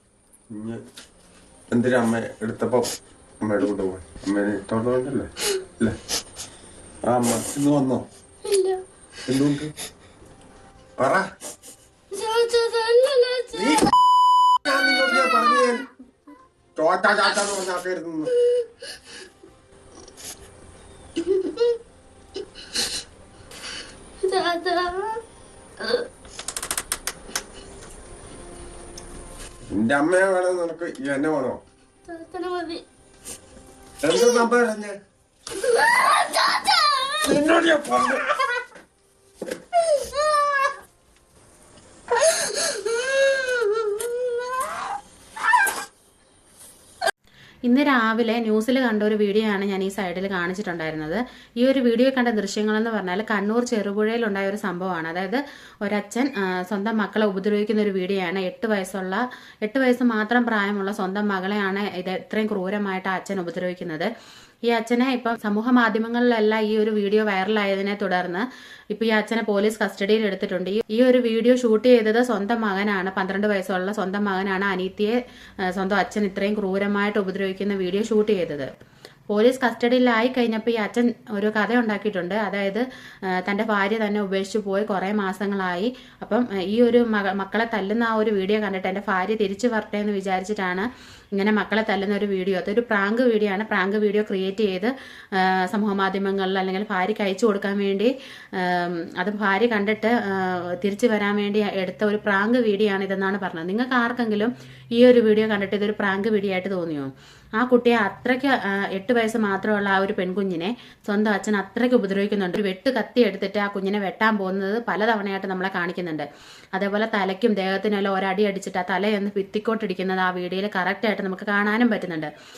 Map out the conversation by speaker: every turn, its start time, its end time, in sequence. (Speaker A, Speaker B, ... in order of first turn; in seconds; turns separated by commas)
Speaker A: 0.5-0.8, Speaker A: 1.7-2.9, Speaker A: 3.4-6.0, Speaker A: 7.0-8.0, Speaker B: 8.4-8.8, Speaker A: 9.3-9.7, Speaker A: 11.0-11.3, Speaker B: 12.1-13.8, Speaker A: 13.5-13.8, Speaker A: 14.6-15.8, Speaker A: 16.8-18.3, Speaker B: 21.3-21.7, Speaker B: 24.2-25.2, Speaker A: 29.7-31.6, Speaker B: 32.1-32.8, Speaker A: 34.0-35.0, Speaker B: 35.6-37.2, Speaker A: 37.2-38.3, Speaker B: 39.9-40.7, Speaker B: 42.2-44.5, Speaker C: 47.6-64.1, Speaker C: 64.7-78.7, Speaker C: 79.3-122.3